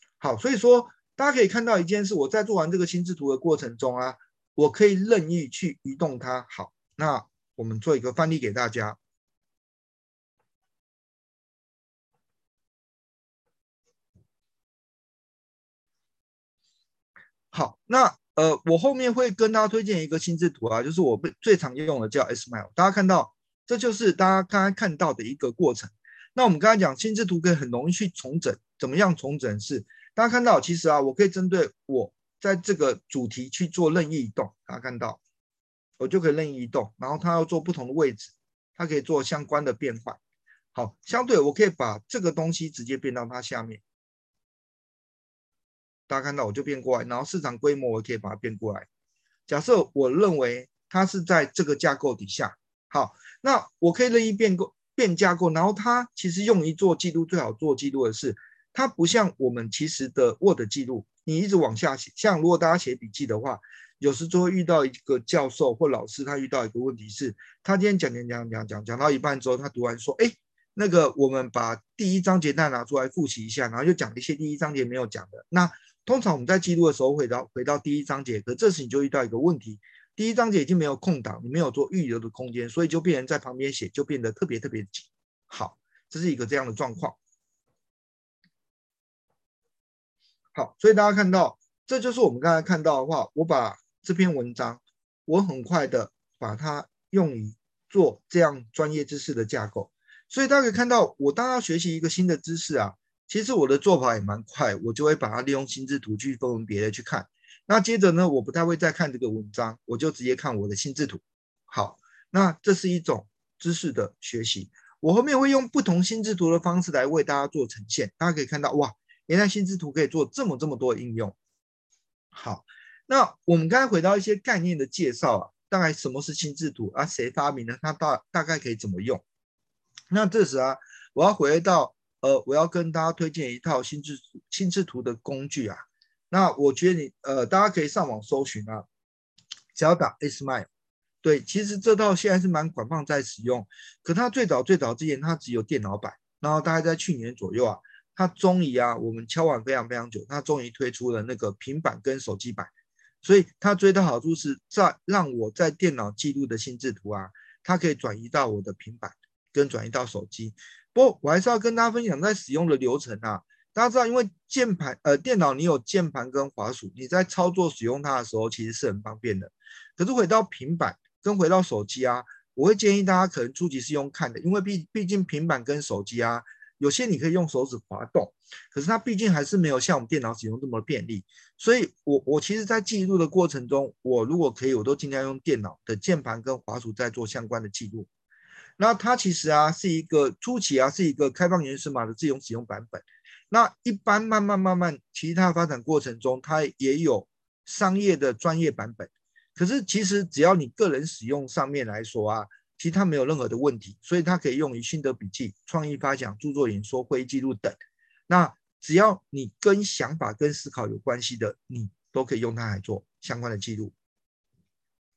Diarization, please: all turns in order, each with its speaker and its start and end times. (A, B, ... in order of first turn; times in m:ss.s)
0:00.2-0:09.0 A
0:17.5-0:35.2 A
0:36.0-0:40.2 A
0:40.7-0:43.8 A
0:46.1-0:48.9 A
0:49.5-1:27.2 A
1:30.5-2:01.4 A
2:02.3-2:09.2 A
2:10.1-2:18.8 A
2:19.8-2:20.7 A
2:21.2-2:32.7 A
2:33.2-3:08.1 A
3:08.8-3:27.8 A
3:28.3-3:33.9 A